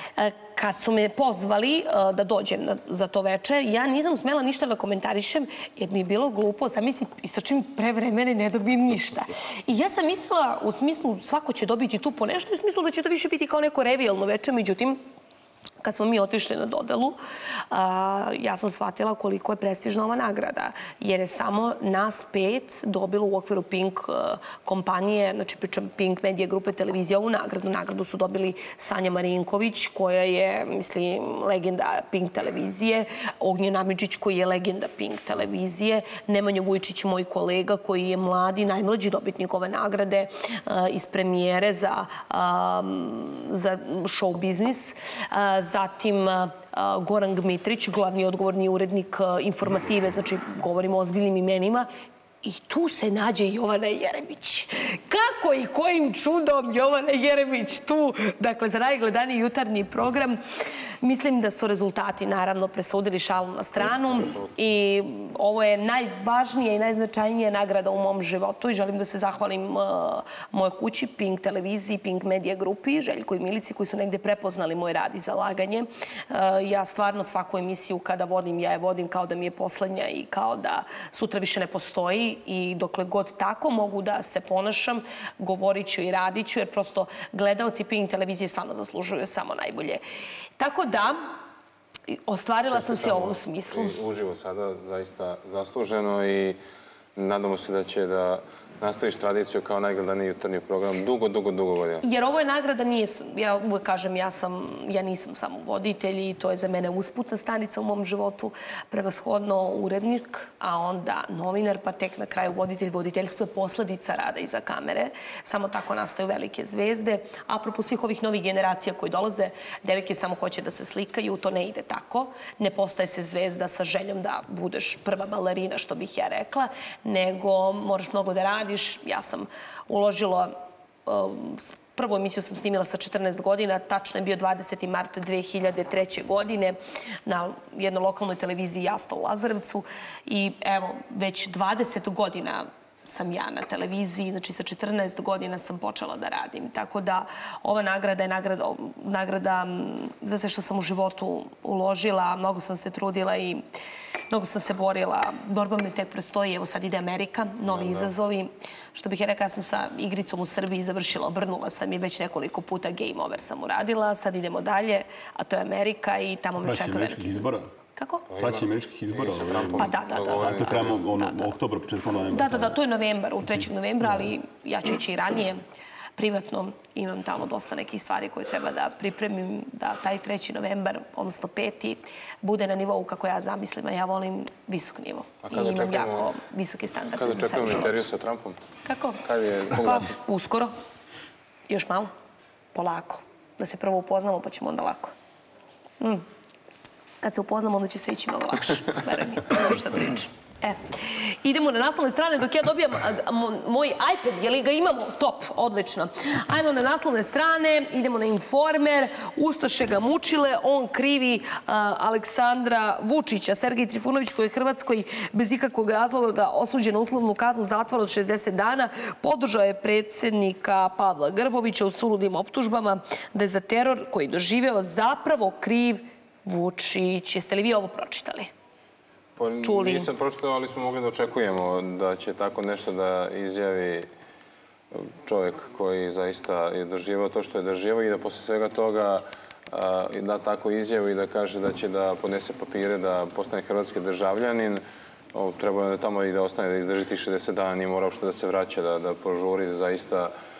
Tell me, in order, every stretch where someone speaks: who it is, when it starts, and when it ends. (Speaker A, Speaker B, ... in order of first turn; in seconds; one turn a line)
Speaker A: 0.2-15.0
Speaker A: 15.8-17.2
Speaker A: 17.7-51.9
Speaker A: 52.4-60.4
Speaker A: 61.0-90.0
Speaker A: 90.6-91.4
Speaker A: 92.2-94.0
Speaker B: 92.7-96.6
Speaker B: 97.2-102.0
Speaker A: 102.0-130.5
Speaker A: 131.1-153.6
Speaker A: 154.3-168.3
Speaker B: 157.7-158.1
Speaker C: 166.6-167.7
Speaker B: 168.3-171.0
Speaker C: 168.4-172.8
Speaker A: 169.8-171.5
Speaker A: 172.3-175.6
Speaker A: 176.2-188.0
Speaker B: 185.5-186.3
Speaker B: 187.2-188.6
Speaker A: 188.8-190.7
Speaker B: 189.2-190.1
Speaker A: 191.7-192.1
Speaker A: 192.7-195.1
Speaker A: 197.2-228.5
Speaker B: 229.3-234.1
Speaker A: 229.6-230.1
Speaker B: 234.9-244.8
Speaker B: 245.3-250.3